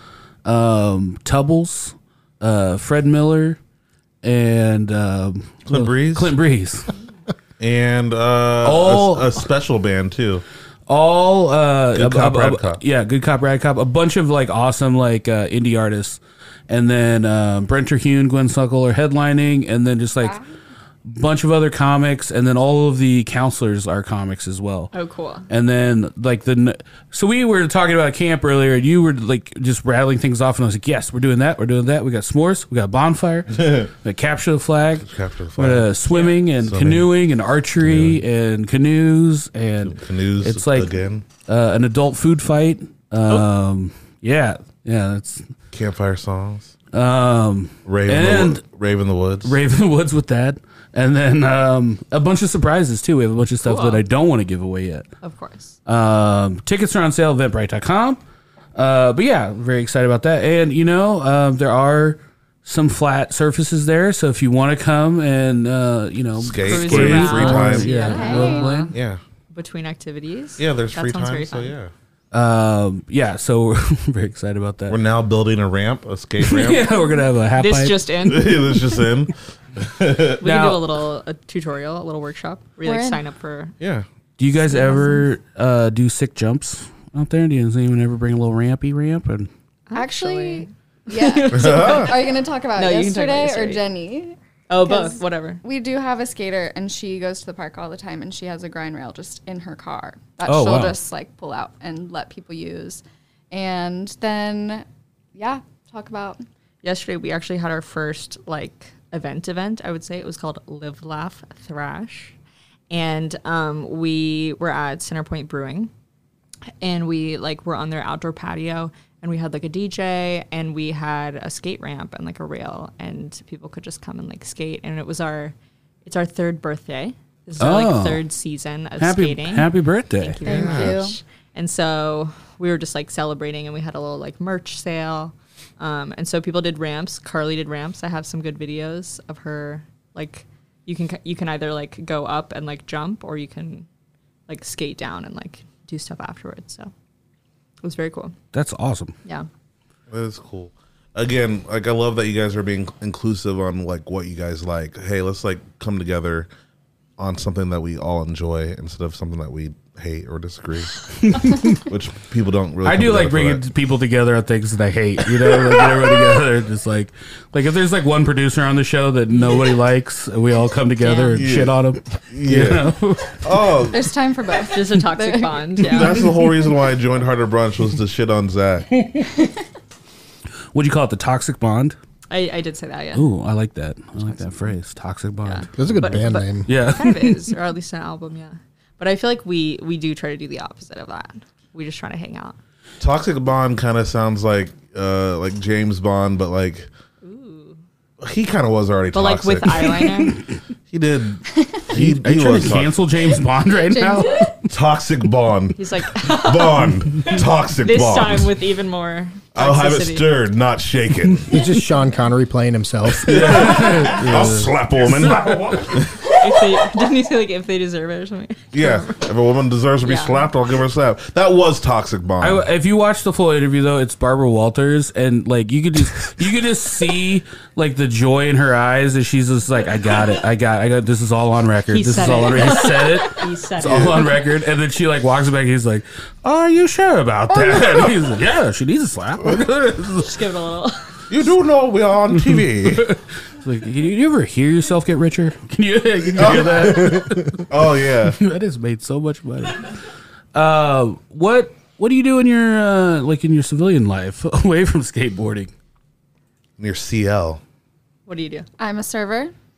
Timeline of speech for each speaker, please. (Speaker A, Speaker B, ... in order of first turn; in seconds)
Speaker A: 0.5-3.6, 4.2-6.9, 8.6-9.4, 10.9-20.4, 21.1-24.9, 25.5-40.9, 41.5-45.5, 46.9-48.6, 49.4-55.1, 55.9-58.2, 58.8-68.9, 72.3-75.0, 76.4-78.0, 80.4-80.8, 84.4-89.5, 100.4-101.0, 127.6-128.2, 129.0-130.4, 148.5-149.2, 161.3-161.8, 162.8-173.4, 179.0-179.3, 180.7-182.0, 183.2-185.9, 186.7-187.3, 201.9-204.6, 213.2-216.0, 222.4-240.3, 242.4-247.6, 248.3-250.0, 250.5-255.7
Speaker B: 5.7-6.3, 7.6-10.4, 11.9-12.8, 33.5-33.9, 35.0-35.9, 36.6-37.1, 37.8-38.2, 39.8-41.2, 45.7-46.7, 47.9-49.6, 66.4-69.2, 70.6-71.9, 74.9-76.9, 78.2-80.4, 83.8-84.1, 91.5-92.2, 130.4-131.0, 150.1-156.5, 157.2-163.6, 171.3-174.1, 175.8-178.9, 193.0-196.9, 198.2-200.3, 200.9-203.0, 204.7-208.5, 209.5-211.6, 213.2-216.8, 218.7-222.7, 233.8-234.2, 237.5-238.2, 241.3-243.1, 246.4-248.4, 256.8-257.6
Speaker C: 24.9-25.5, 36.1-36.4, 53.6-54.0, 55.2-55.8, 66.6-68.9, 69.5-71.8, 77.6-78.9, 80.4-83.7, 89.9-93.8, 94.7-95.6, 106.8-112.4, 112.9-115.9, 116.8-125.5, 126.0-143.9, 144.5-146.9, 147.8-148.3, 171.0-171.4, 174.7-176.3, 182.3-183.3, 185.4-192.6, 197.2-197.8, 199.1-200.4, 205.8-210.3, 216.2-219.3, 220.0-220.5, 231.9-234.3, 240.2-241.0, 258.3-258.7
Speaker D: 67.9-68.7, 82.8-83.2, 84.7-85.2, 90.0-106.4, 130.4-131.2, 173.9-176.5, 203.9-204.5, 258.8-259.5
Speaker E: 185.8-186.7, 211.5-213.5